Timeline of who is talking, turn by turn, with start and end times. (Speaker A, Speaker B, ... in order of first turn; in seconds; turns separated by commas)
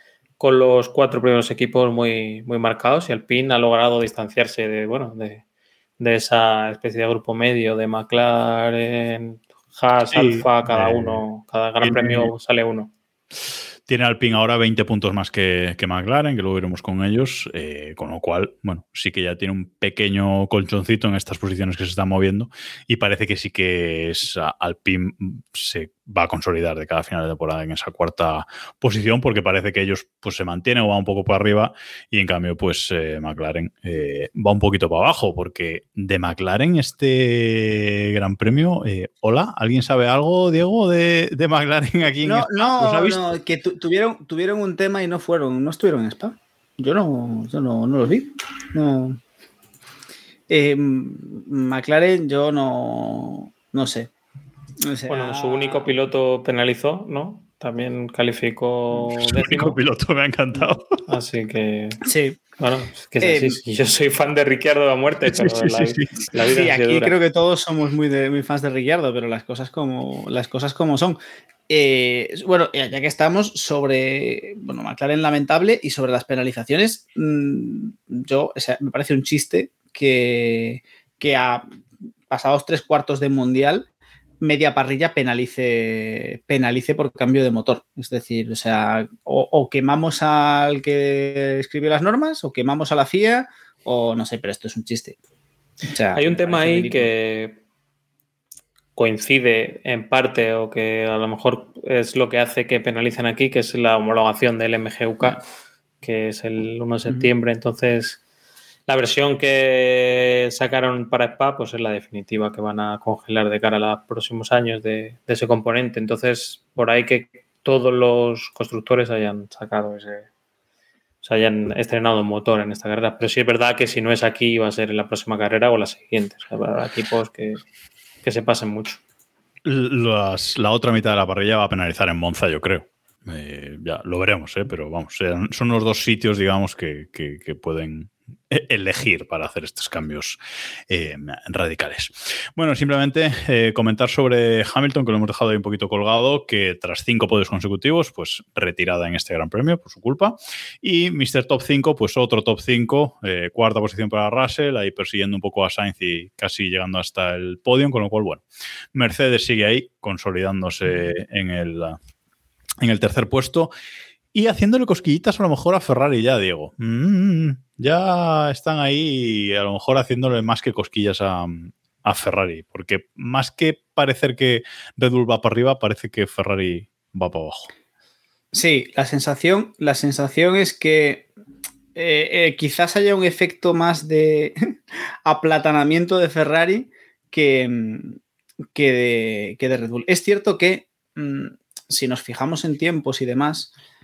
Speaker A: 0.4-5.4, Speaker A: 6.0-12.9, Speaker B: 10.1-11.2, Speaker B: 11.8-12.3, Speaker B: 13.9-43.4, Speaker C: 42.2-49.2, Speaker C: 50.5-54.1, Speaker C: 54.8-55.9, Speaker A: 55.1-59.8, Speaker B: 59.2-60.9, Speaker A: 61.1-62.0, Speaker C: 62.0-62.4, Speaker A: 62.6-67.2, Speaker C: 63.2-63.6, Speaker B: 65.3-66.3, Speaker C: 66.5-81.7, Speaker C: 82.3-83.9, Speaker C: 84.4-95.2, Speaker C: 95.9-97.1, Speaker A: 96.1-97.6, Speaker A: 99.0-105.4, Speaker A: 106.0-108.2, Speaker A: 108.9-120.3, Speaker A: 121.2-127.6, Speaker A: 128.2-129.0, Speaker B: 129.6-162.0, Speaker B: 162.8-163.7, Speaker B: 164.3-177.7, Speaker C: 178.5-181.3, Speaker C: 181.9-188.2, Speaker C: 188.7-193.7